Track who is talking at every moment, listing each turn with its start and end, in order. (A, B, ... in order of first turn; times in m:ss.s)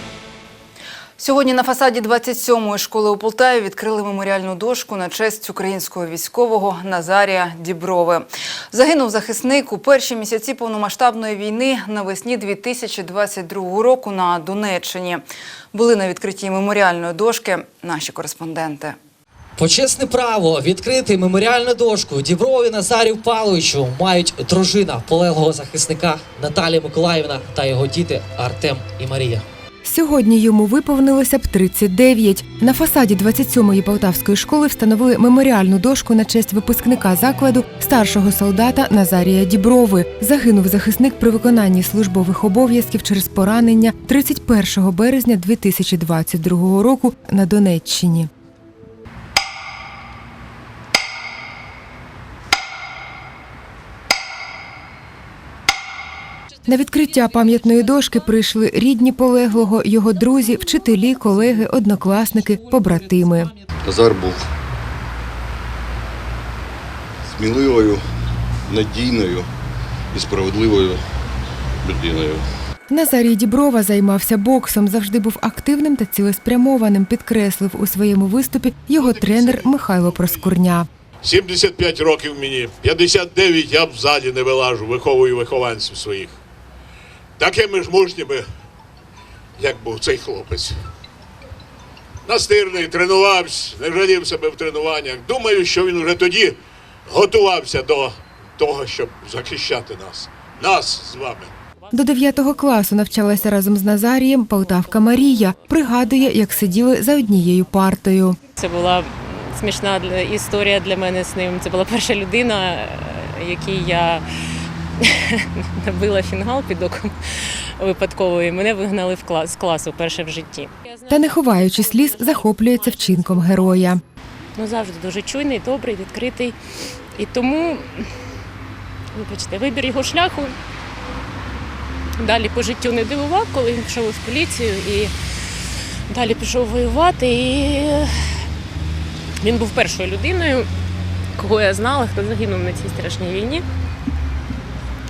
0:01.2-0:19.0 A
0:19.6-0:29.4 B
0:29.8-0:48.3 C
0:56.6-1:03.5 C
1:03.8-1:04.4 D
1:07.3-1:08.0 D
1:08.7-1:09.5 D
1:10.1-1:11.0 D
1:11.8-1:12.4 D
1:12.9-1:20.9 C
1:21.3-1:26.4 E
1:27.4-1:28.4 E
1:29.6-1:30.7 E
1:32.3-1:36.5 E
1:37.1-1:41.5 E
1:41.8-1:47.0 F
1:41.9-1:48.4 C
1:48.1-1:54.2 F
1:55.6-1:57.1 F
1:57.8-2:03.9 F
2:01.1-2:04.0 C
2:04.6-2:06.6 F
2:07.1-2:08.0 F
2:09.1-2:10.6 F
2:12.2-2:15.1 F
2:16.1-2:18.1 F
2:19.4-2:20.7 F
2:21.4-2:23.6 F